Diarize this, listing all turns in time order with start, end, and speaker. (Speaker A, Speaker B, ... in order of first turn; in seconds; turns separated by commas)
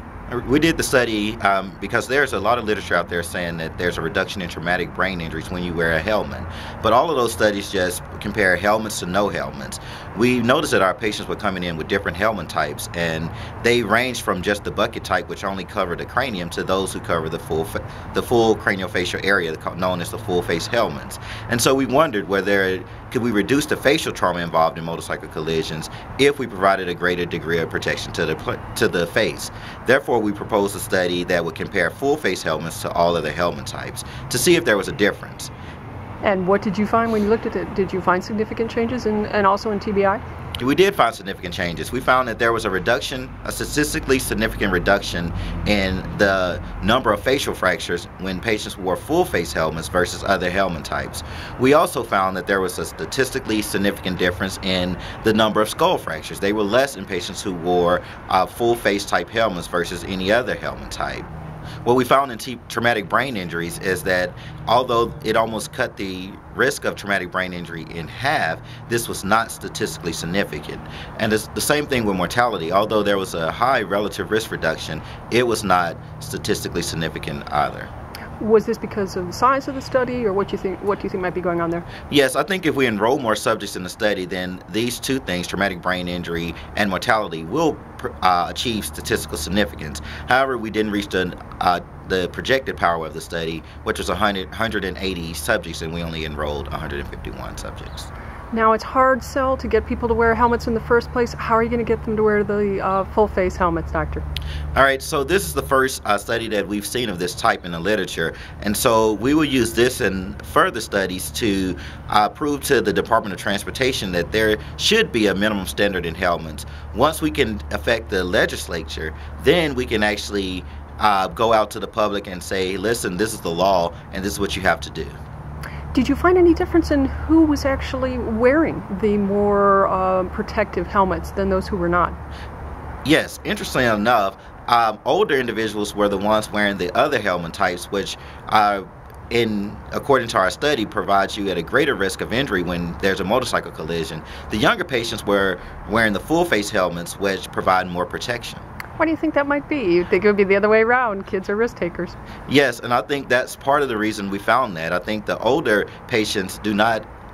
Speaker A: 0.3-35.5, Speaker B: 36.2-40.2, Speaker A: 40.6-61.3, Speaker A: 61.8-77.9, Speaker B: 78.4-81.9, Speaker A: 82.1-98.1, Speaker B: 98.5-104.2, Speaker A: 104.7-125.2, Speaker B: 125.9-132.2, Speaker A: 133.0-148.6, Speaker B: 149.0-152.1, Speaker A: 152.5-157.1